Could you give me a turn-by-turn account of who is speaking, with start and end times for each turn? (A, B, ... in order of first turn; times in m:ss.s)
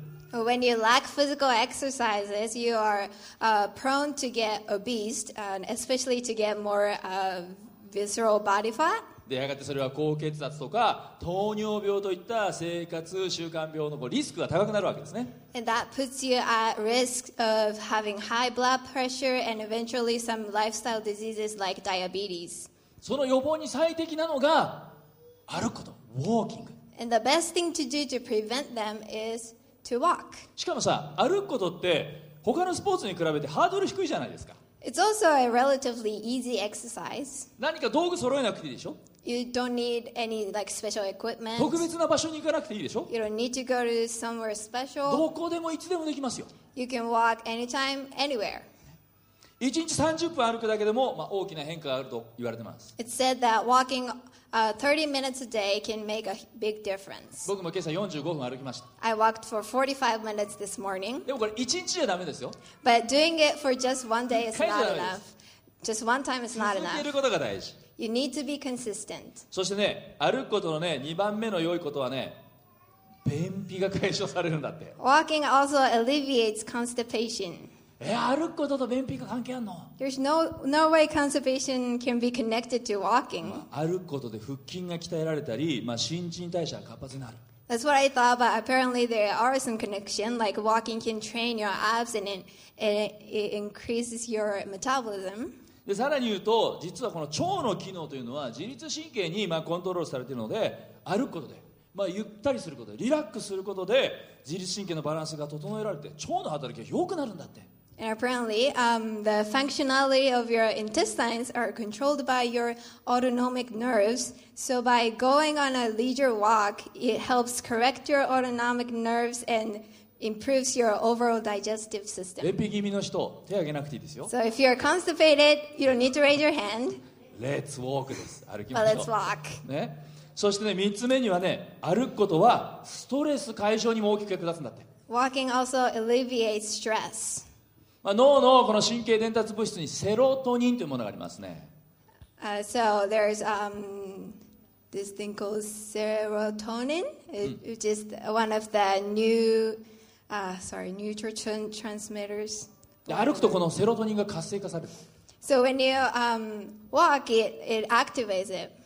0:00.3-0:09.0 A
0:09.3-0:15.4 B
0:15.5-0:22.7 A
0:23.0-0:25.0 B
0:25.5-0:26.7 B
0:27.0-0:30.4 A
0:30.6-0:34.6 B
0:34.8-0:37.5 A
0:37.6-0:39.0 B
0:39.2-0:41.9 A
0:41.6-0:43.1 B
0:43.1-0:45.3 A
0:45.1-0:46.5 B
0:46.8-0:48.7 A
0:49.6-0:52.9 B
0:53.0-0:57.5 A
0:57.5-0:58.9 B
0:59.0-1:01.3 A
1:01.3-1:02.6 B
1:02.8-1:07.1 A
1:04.4-1:05.2 B
1:06.6-1:07.8 B
1:08.0-1:09.4 A
1:09.5-1:12.4 B
1:13.2-1:15.0 B
1:15.0-1:17.7 A
1:18.0-1:19.9 B
1:20.0-1:23.6 A
1:23.4-1:27.4 B
1:27.7-1:35.6 A
1:35.9-1:47.7 B
1:48.0-2:02.5 A
2:02.4-2:04.3 B
2:04.3-2:07.0 A
2:07.4-2:09.1 B
2:08.7-2:09.6 A
2:09.6-2:14.9 B
2:15.1-2:17.5 A
2:18.0-2:21.7 B
2:22.4-2:24.4 A
2:24.9-2:33.6 A
2:33.1-2:35.0 B
2:35.4-2:38.7 A